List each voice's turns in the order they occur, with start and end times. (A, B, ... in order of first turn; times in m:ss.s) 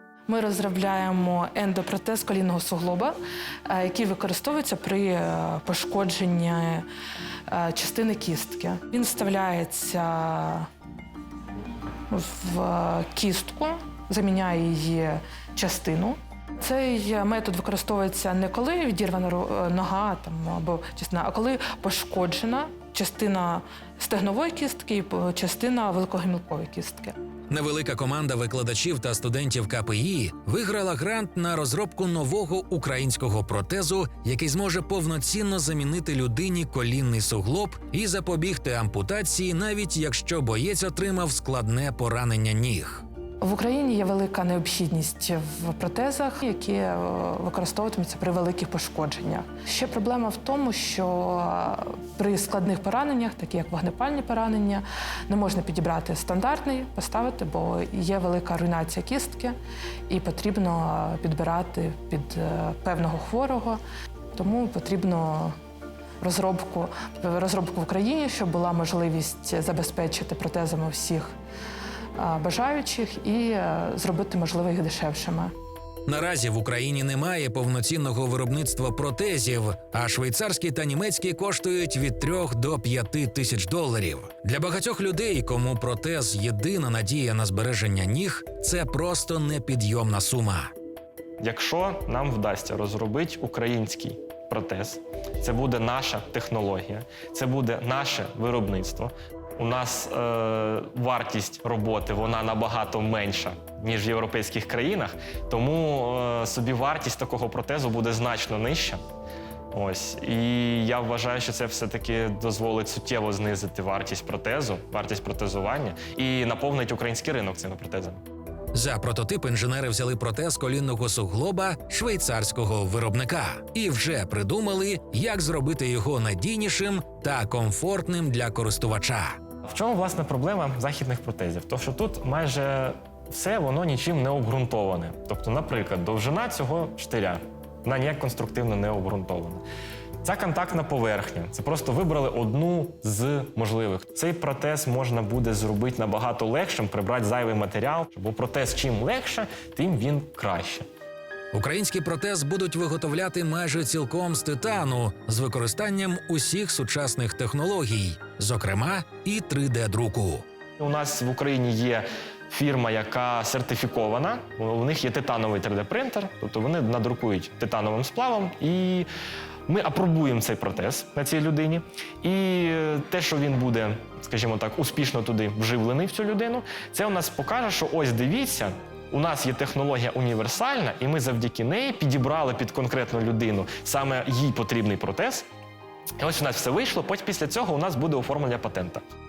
0:00.3-0:03.1 A
0:03.7-0:06.9 A
0:07.5-0:10.7 A
0:12.1-0:27.2 A
0:27.5-0:43.0 B
0:43.4-0:59.6 A
1:00.1-1:03.8 A
1:04.3-1:05.6 A
1:06.2-1:11.3 A
1:12.1-1:15.5 A
1:16.0-1:30.7 B
1:31.4-1:49.0 C
1:49.7-1:58.2 C
1:58.7-2:09.4 B
2:09.6-2:19.6 C
2:20.2-2:30.9 C
2:31.5-2:40.4 B
2:40.8-2:49.1 C
2:49.7-3:05.4 C
3:06.2-3:09.0 C